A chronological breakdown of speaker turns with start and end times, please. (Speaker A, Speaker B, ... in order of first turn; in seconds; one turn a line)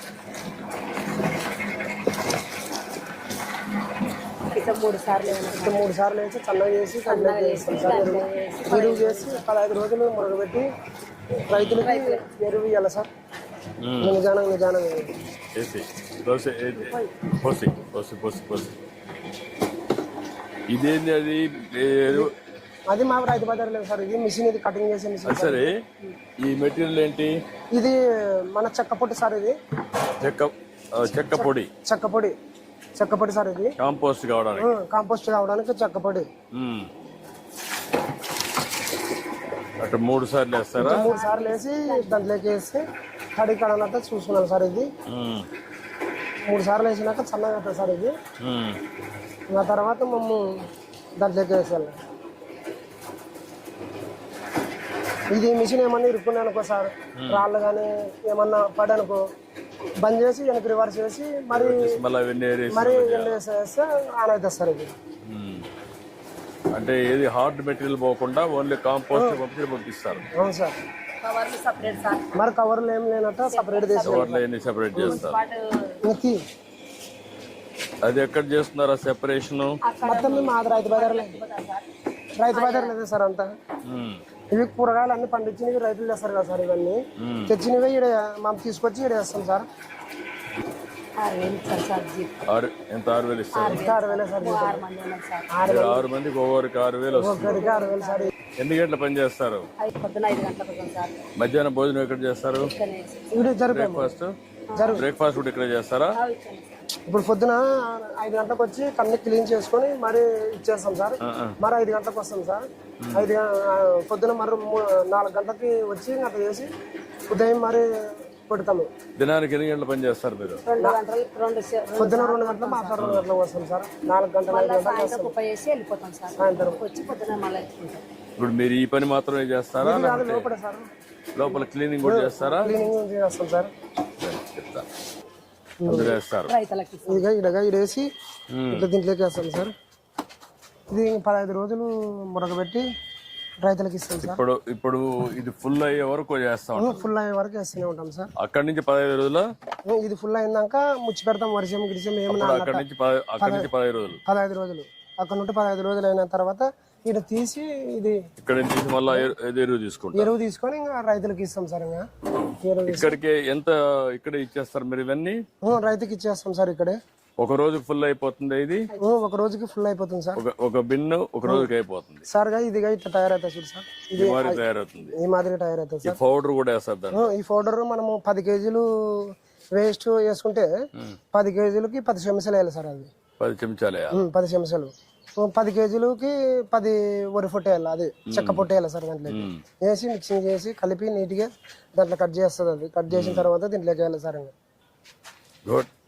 Speaker A: 4.5-5.9
Speaker B: 5.5-10.7
Speaker A: 7.0-9.4
Speaker B: 11.5-13.1
Speaker A: 11.8-12.2
Speaker B: 14.0-15.1
Speaker C: 15.6-16.9
Speaker C: 17.4-18.7
Speaker C: 20.7-22.2
Speaker B: 22.9-25.6
Speaker C: 25.3-25.7
Speaker C: 26.4-27.3
Speaker B: 28.5-29.5
Speaker C: 30.2-31.7
Speaker B: 31.2-32.3
Speaker B: 33.0-33.7
Speaker C: 33.8-34.7
Speaker B: 34.6-36.3
Speaker C: 36.5-36.9
Speaker C: 39.8-41.0
Speaker B: 40.8-42.8
Speaker A: 40.9-42.3
Speaker B: 43.4-44.9
Speaker C: 45.1-45.4
Speaker B: 46.5-48.1
Speaker C: 48.4-48.7
Speaker B: 49.5-50.4
Speaker B: 51.2-51.9
Speaker B: 55.3-59.2
Speaker B: 60.0-61.9
Speaker C: 61.6-63.4
Speaker B: 62.7-64.9
Speaker C: 65.3-65.6
Speaker C: 66.8-70.2
Speaker B: 69.1-69.4
Speaker B: 70.4-70.8
Speaker A: 71.2-72.3
Speaker B: 72.3-74.4
Speaker A: 73.5-74.3
Speaker C: 74.0-75.4
Speaker A: 74.9-76.0
Speaker B: 76.0-76.4
Speaker C: 78.1-79.7
Speaker A: 79.8-81.8
Speaker B: 80.0-81.4
Speaker B: 82.4-83.5
Speaker A: 82.5-83.0
Speaker C: 83.9-84.2
Speaker B: 84.5-87.0
Speaker B: 87.5-89.7
Speaker A: 91.2-92.4
Speaker C: 92.5-93.8
Speaker A: 93.5-95.5
Speaker B: 93.7-94.8
Speaker B: 95.5-96.0
Speaker C: 95.7-97.5
Speaker B: 97.1-98.3
Speaker A: 97.5-98.3
Speaker C: 98.6-99.6
Speaker A: 99.8-101.1
Speaker C: 101.4-102.7
Speaker A: 102.6-103.5
Speaker B: 103.3-104.1
Speaker C: 103.7-104.3
Speaker A: 104.7-105.0
Speaker B: 104.8-105.0
Speaker C: 104.9-106.1
Speaker A: 106.1-106.7
Speaker B: 107.1-112.6
Speaker B: 113.1-116.7
Speaker B: 117.3-117.9
Speaker B: 118.5-118.9
Speaker C: 119.2-120.5
Speaker A: 120.6-123.0
Speaker B: 121.9-125.3
Speaker A: 124.5-128.0
Speaker B: 126.4-126.8
Speaker C: 128.4-130.5
Speaker B: 129.8-130.8
Speaker C: 131.4-132.7
Speaker B: 132.0-133.7
Speaker B: 135.8-136.2
Speaker C: 135.9-136.5
Speaker A: 136.5-137.3
Speaker B: 137.0-138.1
Speaker C: 138.5-138.8
Speaker B: 138.7-139.7
Speaker B: 140.9-142.8
Speaker B: 143.6-144.4
Speaker C: 144.3-147.0
Speaker B: 146.8-148.3
Speaker C: 148.4-149.4
Speaker B: 149.9-152.8
Speaker C: 152.3-154.2
Speaker B: 153.4-153.7
Speaker B: 154.3-158.2
Speaker C: 158.4-160.3
Speaker B: 160.1-162.0
Speaker B: 162.6-163.2
Speaker C: 162.9-165.4
Speaker B: 165.6-167.0
Speaker C: 167.4-168.8
Speaker B: 169.0-170.4
Speaker C: 170.4-172.2
Speaker B: 172.3-174.6
Speaker C: 174.2-175.1
Speaker B: 175.2-176.2
Speaker C: 176.1-177.1
Speaker B: 177.1-178.8
Speaker B: 179.7-180.7
Speaker B: 181.3-183.1
Speaker C: 183.4-184.1
Speaker B: 184.1-194.5
Speaker C: 188.3-188.7
Speaker C: 189.3-189.6
Speaker C: 193.1-193.5